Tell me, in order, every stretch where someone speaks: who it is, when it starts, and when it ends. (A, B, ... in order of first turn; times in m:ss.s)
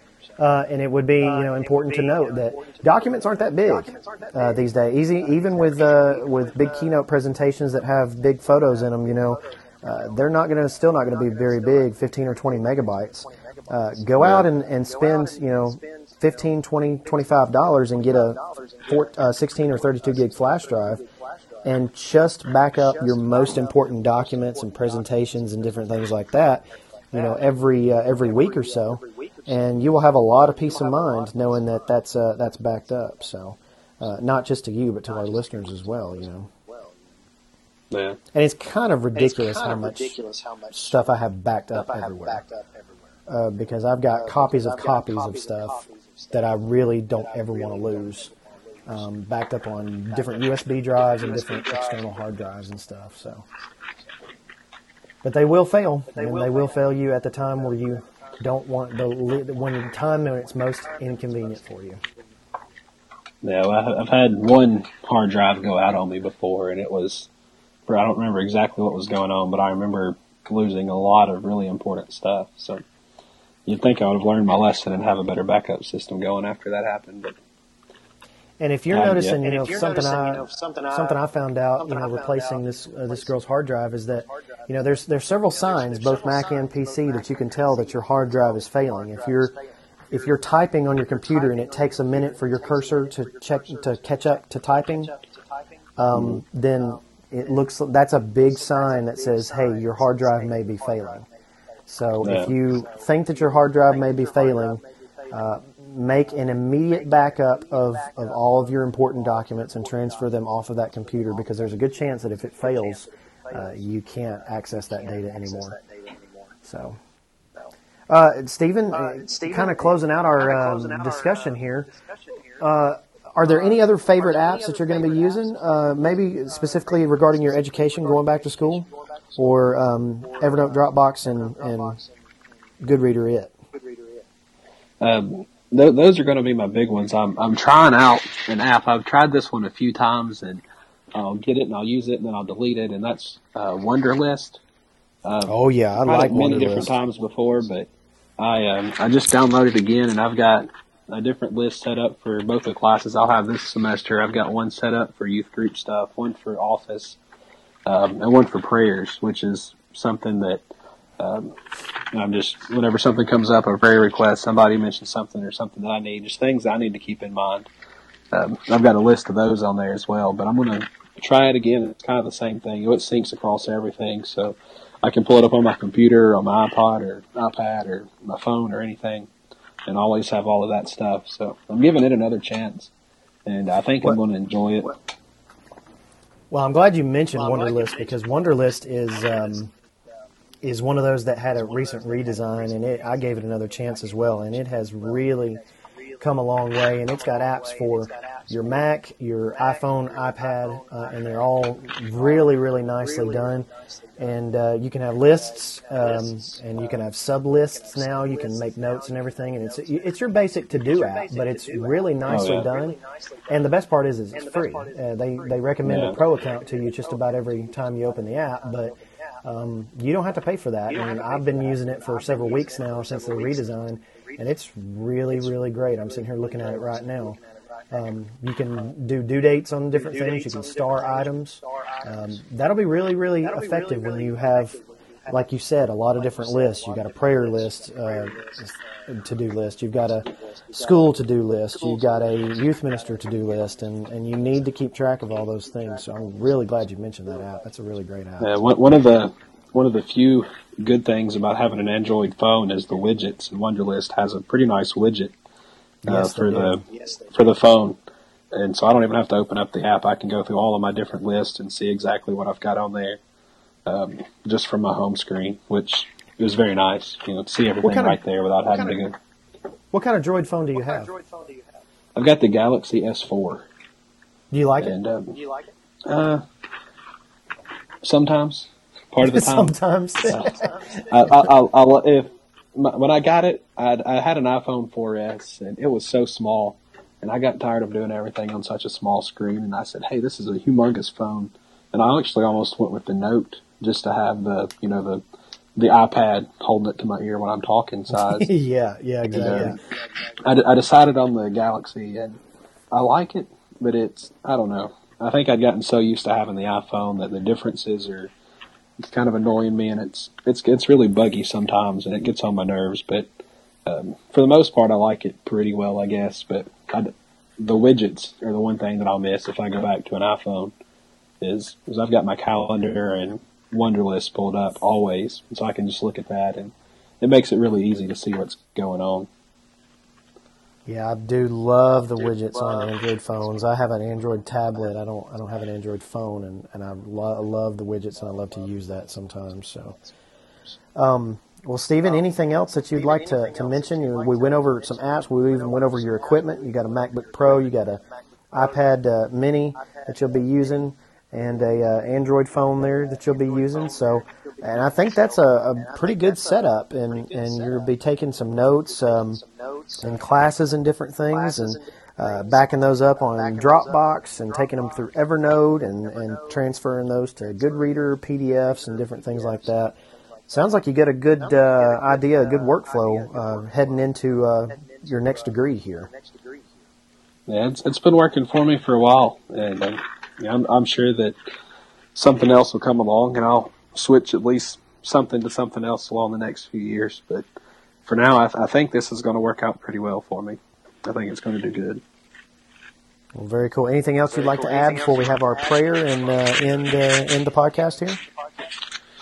0:00.4-0:21.0 A
0:01.2-0:07.0 B
0:08.6-0:16.5 B
0:14.2-0:14.4 C
0:17.0-0:21.7 B
0:21.6-0:36.5 A
0:22.7-0:26.2 B
0:27.1-0:32.0 B
0:35.1-0:37.1 B
0:37.9-0:38.2 C
0:38.3-0:40.2 A
0:39.2-0:41.1 B
0:40.7-0:42.4 A
0:41.8-0:43.1 B
0:43.3-0:48.3 A
0:44.1-0:46.6 B
0:47.1-0:49.0 B
0:48.9-0:53.4 A
0:50.1-0:52.2 B
0:55.2-1:02.0 A
0:56.1-0:56.9 B
0:57.6-0:58.0 B
1:00.9-1:01.6 B
1:03.4-1:07.3 C
1:07.9-1:12.8 C
1:13.6-1:17.4 C
1:18.6-1:29.5 A
1:18.9-1:19.4 C
1:19.4-1:21.2 B
1:21.8-1:23.3 B
1:25.5-1:30.4 B
1:30.1-1:35.1 A
1:31.0-1:35.4 B
1:36.0-1:41.2 A
1:36.1-1:36.4 C
1:38.5-1:41.3 B
1:41.9-1:55.8 A
1:42.2-1:42.5 C
1:42.6-1:45.5 B
1:46.9-1:53.9 B
1:54.6-1:56.6 B
1:56.6-1:57.0 A
1:58.1-2:01.9 A
1:58.9-2:02.8 B
2:02.6-2:12.0 A
2:03.4-2:12.2 B
2:12.8-2:13.5 A
2:13.7-2:14.3 B
2:15.0-2:20.6 C
2:21.1-2:24.6 C
2:25.2-2:37.2 C
2:25.4-2:26.9 A
2:37.9-2:40.6 C
2:41.2-2:41.6 C
2:42.1-2:47.7 C
2:48.3-2:59.3 C
2:59.9-3:02.9 C
3:03.4-3:04.9 C
3:06.5-3:09.7 A
3:07.4-3:08.4 B
3:09.1-3:09.6 B
3:10.6-3:15.6 A
3:11.5-3:16.4 B
3:16.2-3:47.4 A
3:17.0-3:18.8 B
3:19.5-3:21.5 B
3:22.1-3:24.4 B
3:25.4-3:27.0 B
3:27.7-3:33.6 B
3:32.3-3:32.7 C
3:34.3-3:39.0 B
3:35.8-3:36.2 C
3:40.9-3:43.8 B
3:45.3-3:48.1 B
3:47.9-4:08.5 A
3:49.9-3:52.4 B
3:53.4-3:55.4 B
3:56.1-3:58.7 B
4:00.1-4:01.1 B
4:01.7-4:04.6 B
4:05.4-4:06.7 B
4:08.4-4:15.3 C
4:16.0-4:16.8 A
4:16.1-4:18.0 C
4:16.9-4:17.3 B
4:18.5-4:23.2 C
4:23.9-4:29.2 C
4:27.8-4:29.0 A
4:29.9-4:31.1 A
4:30.8-4:31.8 B
4:32.1-4:33.7 C
4:34.5-4:35.0 A
4:34.8-4:35.4 C
4:35.3-4:35.7 B
4:36.0-4:36.4 C
4:38.0-4:55.2 C
4:39.2-4:41.5 A
4:55.8-4:58.5 C
4:58.1-4:59.8 A
4:59.3-4:59.8 C
5:00.4-5:02.4 C
5:02.9-5:08.3 C
5:09.0-5:13.3 C
5:13.9-5:20.7 C
5:21.4-5:29.3 C
5:30.9-5:40.0 A
5:32.2-5:33.4 B
5:40.9-5:59.4 A
5:42.9-5:48.8 B
5:49.8-5:50.7 B
5:52.8-5:57.9 B
5:58.9-6:00.3 B
6:00.0-6:10.0 A
6:01.3-6:05.4 B
6:06.0-6:06.6 B
6:07.4-6:09.8 B
6:10.4-6:10.7 B
6:10.5-6:16.1 A
6:11.4-6:14.1 B
6:14.7-6:16.7 B
6:17.5-6:21.4 C
6:22.1-6:27.4 C
6:28.0-6:32.0 C
6:33.4-6:38.2 A
6:34.3-6:37.0 B